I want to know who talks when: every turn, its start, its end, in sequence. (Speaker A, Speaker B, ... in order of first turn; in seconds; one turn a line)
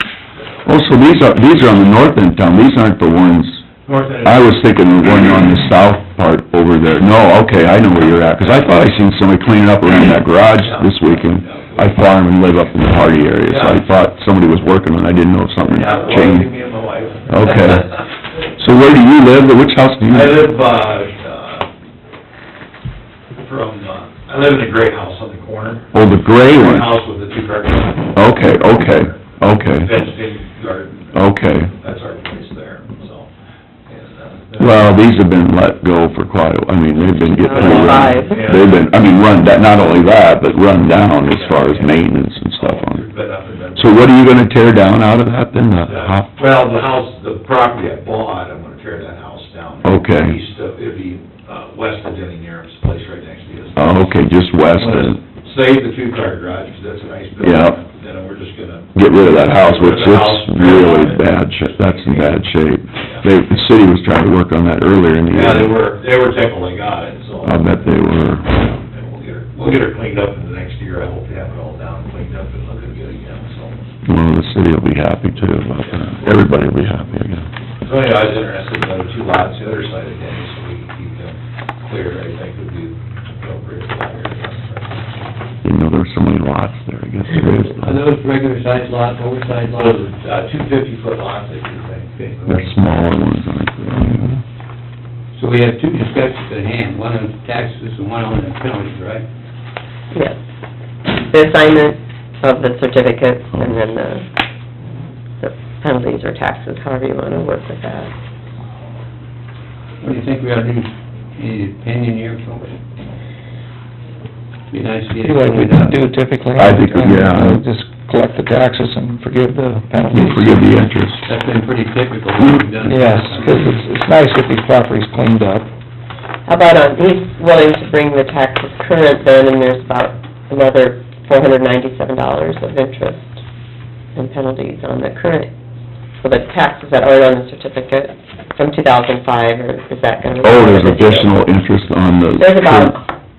Speaker A: 0.3-0.7
Speaker B: 0.6-3.6
Speaker A: 3.8-4.6
Speaker B: 4.2-16.5
Speaker A: 8.4-8.7
Speaker A: 10.6-11.9
Speaker A: 13.5-13.8
Speaker A: 15.6-17.9
Speaker B: 17.3-17.9
Speaker B: 18.5-20.4
Speaker A: 20.1-21.7
Speaker A: 23.4-25.9
Speaker B: 25.9-26.9
Speaker A: 26.5-29.1
Speaker B: 28.1-29.9
Speaker A: 29.8-31.2
Speaker B: 31.1-31.7
Speaker A: 31.7-33.3
Speaker A: 33.9-34.9
Speaker B: 34.6-43.0
Speaker C: 37.2-38.5
Speaker A: 37.5-38.9
Speaker A: 41.3-41.9
Speaker A: 42.6-44.1
Speaker B: 43.7-46.3
Speaker A: 45.9-54.2
Speaker B: 49.8-50.4
Speaker B: 53.8-55.2
Speaker A: 54.8-62.4
Speaker B: 57.4-57.8
Speaker B: 58.9-65.8
Speaker A: 65.3-67.8
Speaker B: 67.4-68.7
Speaker A: 68.5-74.0
Speaker B: 74.0-77.5
Speaker A: 77.8-85.0
Speaker B: 85.6-88.0
Speaker D: 87.8-90.0
Speaker A: 89.8-92.6
Speaker B: 92.5-94.4
Speaker D: 95.3-99.2
Speaker C: 100.1-100.4
Speaker C: 101.1-104.3
Speaker C: 105.4-108.1
Speaker D: 110.0-112.8
Speaker D: 114.7-116.0
Speaker E: 115.2-120.7
Speaker B: 116.5-117.6
Speaker B: 120.1-121.2
Speaker D: 121.2-123.7
Speaker E: 122.8-125.7
Speaker C: 126.4-133.4
Speaker C: 134.1-135.5
Speaker C: 136.2-141.4
Speaker B: 140.4-142.9
Speaker C: 142.3-143.0